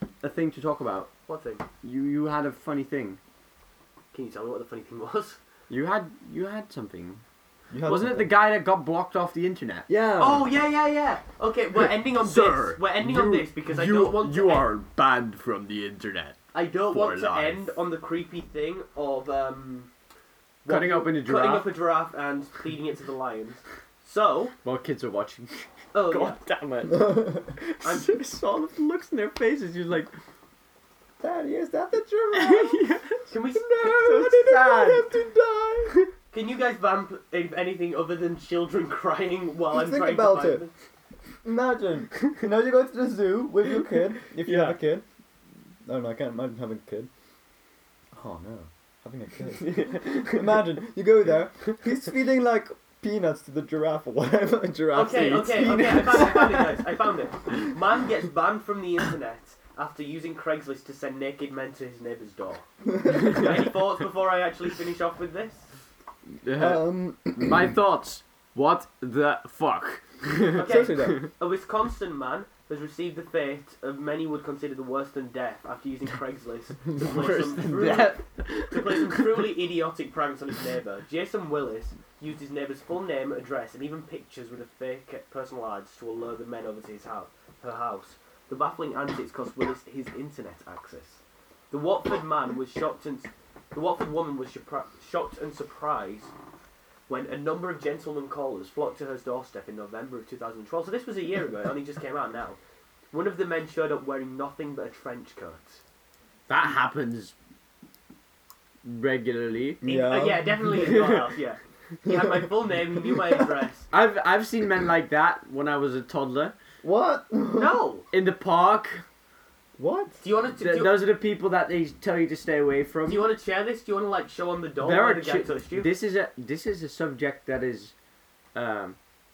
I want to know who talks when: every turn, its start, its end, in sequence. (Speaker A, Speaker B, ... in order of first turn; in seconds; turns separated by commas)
Speaker A: 0.2-1.1, Speaker B: 1.3-1.6, Speaker A: 1.8-3.2, Speaker B: 4.1-5.4, Speaker A: 5.7-7.2, Speaker C: 7.7-8.3, Speaker A: 7.8-9.9, Speaker C: 9.9-10.5, Speaker B: 10.2-14.7, Speaker A: 11.8-17.6, Speaker B: 16.5-19.9, Speaker B: 20.6-24.5, Speaker A: 20.7-21.7, Speaker A: 24.6-30.1, Speaker B: 25.9-26.4, Speaker C: 26.9-27.5, Speaker B: 27.8-28.1, Speaker C: 31.2-32.9, Speaker A: 32.3-33.2, Speaker B: 33.3-33.8, Speaker C: 33.5-35.9, Speaker A: 33.8-35.1, Speaker B: 36.3-40.7, Speaker C: 39.7-40.6, Speaker C: 41.4-45.0, Speaker A: 44.3-44.8, Speaker C: 45.9-47.1, Speaker C: 48.1-56.8, Speaker A: 49.6-50.6, Speaker B: 54.9-65.7, Speaker C: 62.9-63.5, Speaker A: 63.1-63.6, Speaker A: 66.4-71.3, Speaker C: 66.6-67.7, Speaker B: 70.5-96.3, Speaker C: 70.5-71.2, Speaker A: 77.0-79.4, Speaker B: 97.1-102.6, Speaker B: 103.1-105.8, Speaker A: 106.5-107.3, Speaker A: 108.8-109.8, Speaker C: 109.8-110.7, Speaker B: 109.8-113.9, Speaker A: 110.7-111.2, Speaker C: 112.0-112.5, Speaker A: 113.9-116.5, Speaker C: 116.8-117.8, Speaker B: 117.5-118.0, Speaker A: 118.1-119.0, Speaker C: 119.8-120.2, Speaker B: 120.2-121.0, Speaker A: 120.6-123.3, Speaker B: 123.0-125.9, Speaker A: 124.8-127.9, Speaker A: 128.5-129.0